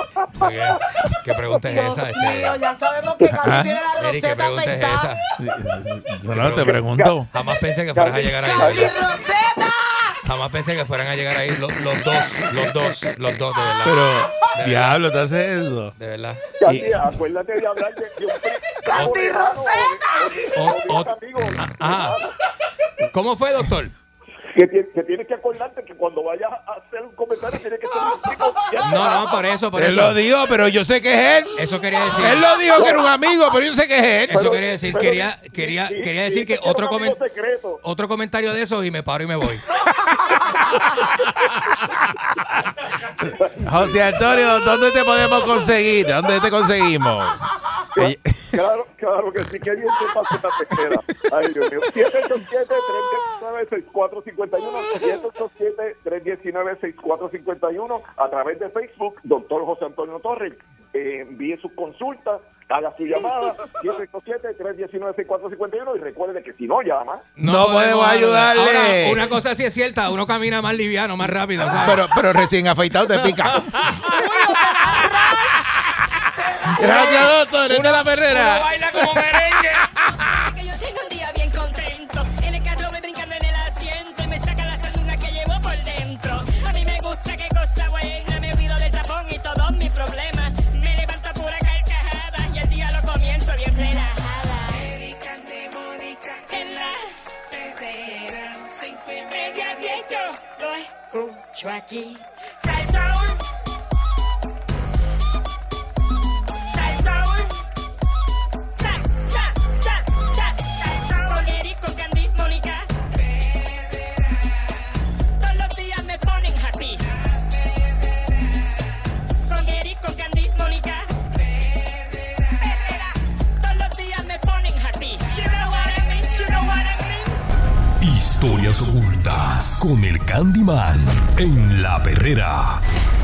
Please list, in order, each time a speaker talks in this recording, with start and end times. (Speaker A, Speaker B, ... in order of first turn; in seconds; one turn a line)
Speaker A: 0.4-2.6
Speaker B: 1.6-5.1
Speaker C: 3.4-3.8
Speaker A: 4.0-5.2
Speaker C: 5.4-7.3
Speaker A: 6.4-8.9
Speaker D: 6.8-7.2
Speaker D: 8.0-8.9
Speaker B: 8.4-10.2
Speaker A: 10.2-15.0
Speaker C: 13.8-15.9
Speaker A: 16.0-16.5
Speaker D: 16.6-22.3
Speaker C: 16.6-17.0
Speaker B: 18.8-20.5
Speaker A: 20.5-22.2
Speaker A: 23.1-23.9
Speaker D: 24.5-29.4
Speaker A: 28.8-30.2
Speaker C: 29.8-31.6
Speaker A: 31.6-32.5
Speaker C: 32.2-34.6
Speaker D: 32.7-33.1
Speaker A: 34.3-37.2
Speaker D: 34.3-37.8
Speaker A: 37.8-39.7
Speaker C: 43.2-47.4
Speaker D: 43.4-43.9
Speaker D: 48.0-67.3
Speaker C: 48.0-48.6
Speaker A: 67.4-72.0
Speaker C: 67.4-69.3
Speaker C: 71.7-73.9
Speaker A: 73.1-74.1
Speaker B: 74.1-75.8
Speaker B: 76.3-77.4
Speaker C: 76.7-80.3
Speaker A: 77.7-79.9
Speaker E: 80.2-103.4
Speaker E: 106.7-107.6
Speaker E: 108.7-112.9
Speaker E: 115.4-117.1
Speaker E: 119.5-121.1
Speaker E: 122.6-127.4
Speaker F: 128.0-132.8